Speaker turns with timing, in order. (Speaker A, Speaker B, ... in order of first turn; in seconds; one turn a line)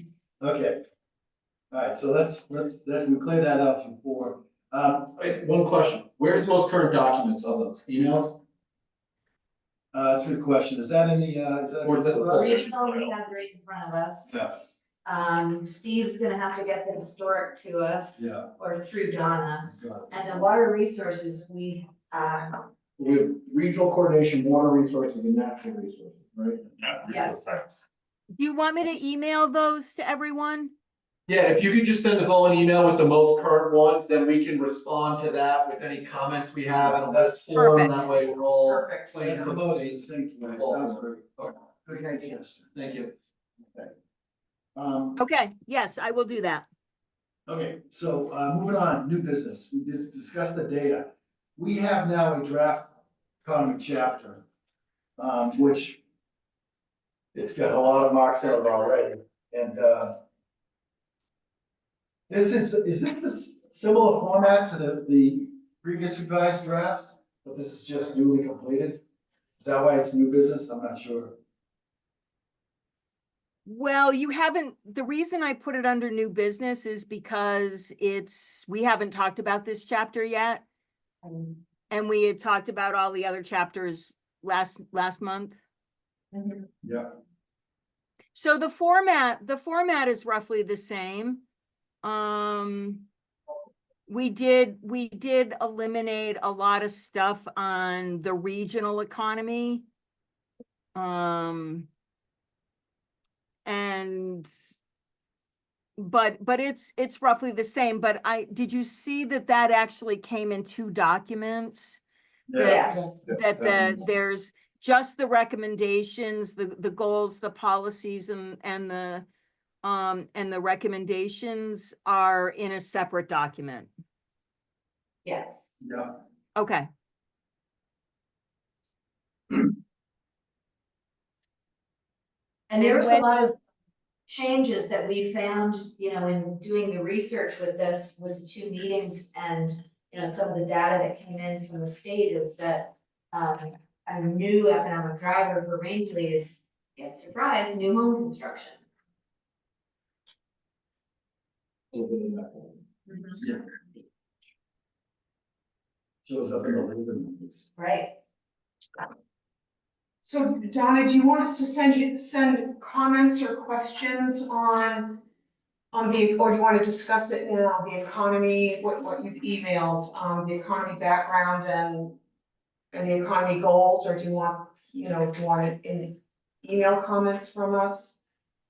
Speaker A: 0.4-0.8
Speaker A: 1.7-5.2
Speaker B: 5.2-8.4
Speaker A: 9.9-12.6
Speaker B: 11.8-13.1
Speaker C: 12.3-14.3
Speaker A: 14.3-14.5
Speaker C: 15.1-22.6
Speaker A: 18.2-18.5
Speaker A: 19.7-20.1
Speaker B: 23.0-26.9
Speaker C: 27.1-27.3
Speaker D: 28.4-30.7
Speaker B: 31.3-41.5
Speaker A: 36.8-38.0
Speaker D: 37.5-38.1
Speaker E: 38.6-39.6
Speaker A: 39.2-41.3
Speaker A: 41.8-42.7
Speaker B: 42.7-43.1
Speaker A: 44.8-45.2
Speaker D: 45.2-46.7
Speaker A: 47.5-52.9
Speaker A: 53.4-54.4
Speaker A: 55.2-56.0
Speaker A: 57.3-60.2
Speaker A: 62.3-69.0
Speaker A: 69.6-71.4
Speaker D: 73.7-80.6
Speaker E: 81.2-81.6
Speaker D: 81.9-85.6
Speaker E: 86.3-86.7
Speaker A: 86.8-87.1
Speaker D: 88.3-91.4
Speaker D: 92.0-93.0
Speaker D: 94.1-99.8
Speaker D: 101.0-101.9
Speaker D: 103.7-104.5
Speaker D: 106.0-112.0
Speaker A: 112.5-114.0
Speaker D: 112.5-119.3
Speaker C: 112.6-113.2
Speaker D: 119.8-123.9
Speaker C: 125.2-125.8
Speaker A: 125.8-126.1
Speaker D: 126.6-126.9
Speaker C: 132.7-133.6
Speaker D: 132.8-133.4
Speaker C: 134.3-148.8
Speaker B: 151.9-152.8
Speaker C: 153.1-153.4
Speaker A: 156.2-157.7
Speaker C: 157.8-158.1
Speaker E: 160.2-165.2
Speaker E: 165.9-172.2
Speaker E: 172.9-178.2